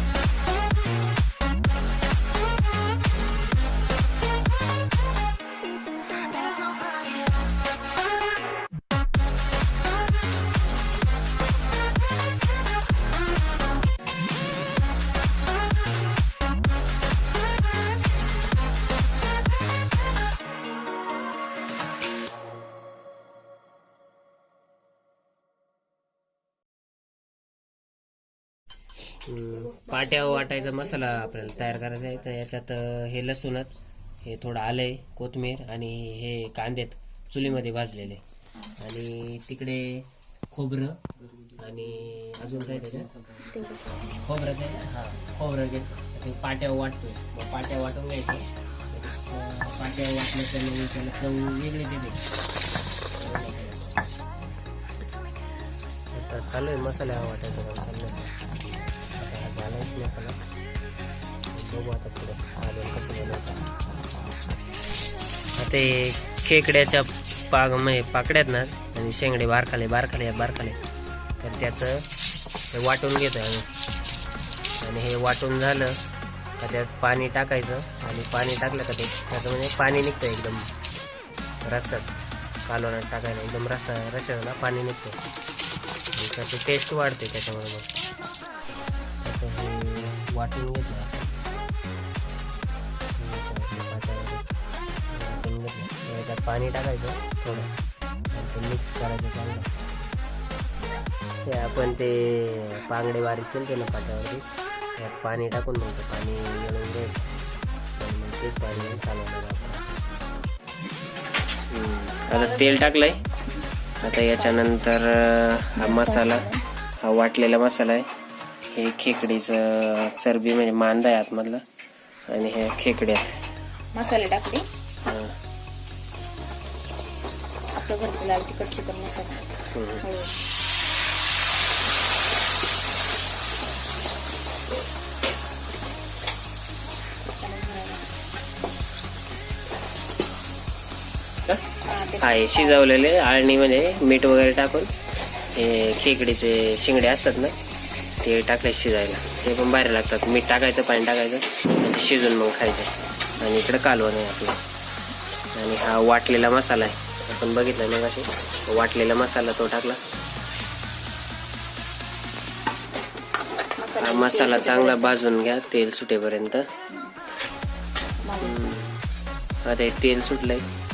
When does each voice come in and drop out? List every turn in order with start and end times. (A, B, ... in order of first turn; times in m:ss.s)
0:29.2-0:33.7 A
0:34.2-0:38.2 A
0:38.8-0:41.0 A
0:41.5-0:43.1 A
0:43.4-0:44.3 B
0:44.2-0:52.2 A
0:53.2-0:53.9 A
0:56.1-0:58.4 A
0:59.1-1:00.4 A
1:01.5-1:03.6 A
1:05.6-1:10.8 A
1:11.4-1:12.0 A
1:12.7-1:13.7 A
1:14.8-1:16.0 A
1:16.6-1:20.7 A
1:21.6-1:22.1 A
1:22.6-1:25.2 A
1:26.1-1:27.9 A
1:29.2-1:31.3 A
1:33.2-1:34.4 A
1:35.1-1:37.7 A
1:38.3-1:39.7 A
1:41.4-1:44.4 A
1:45.0-1:47.2 A
1:48.0-1:50.2 A
1:51.7-1:53.2 A
1:54.0-1:56.5 A
1:55.7-1:56.6 B
1:57.0-1:58.1 A
1:58.7-2:01.6 A
2:02.3-2:03.4 A
2:03.9-2:04.6 B
2:05.0-2:05.3 A
2:07.7-2:09.5 B
2:09.7-2:10.0 A
2:10.0-2:10.3 B
2:17.4-2:18.1 B
2:21.8-2:22.8 B
2:22.2-2:24.9 A
2:25.5-2:27.5 A
2:28.2-2:34.6 A
2:35.5-2:40.0 A
2:43.8-2:45.2 B
2:44.0-2:46.7 A
2:48.2-2:48.8 B
2:48.4-2:49.0 A
2:49.6-2:50.6 A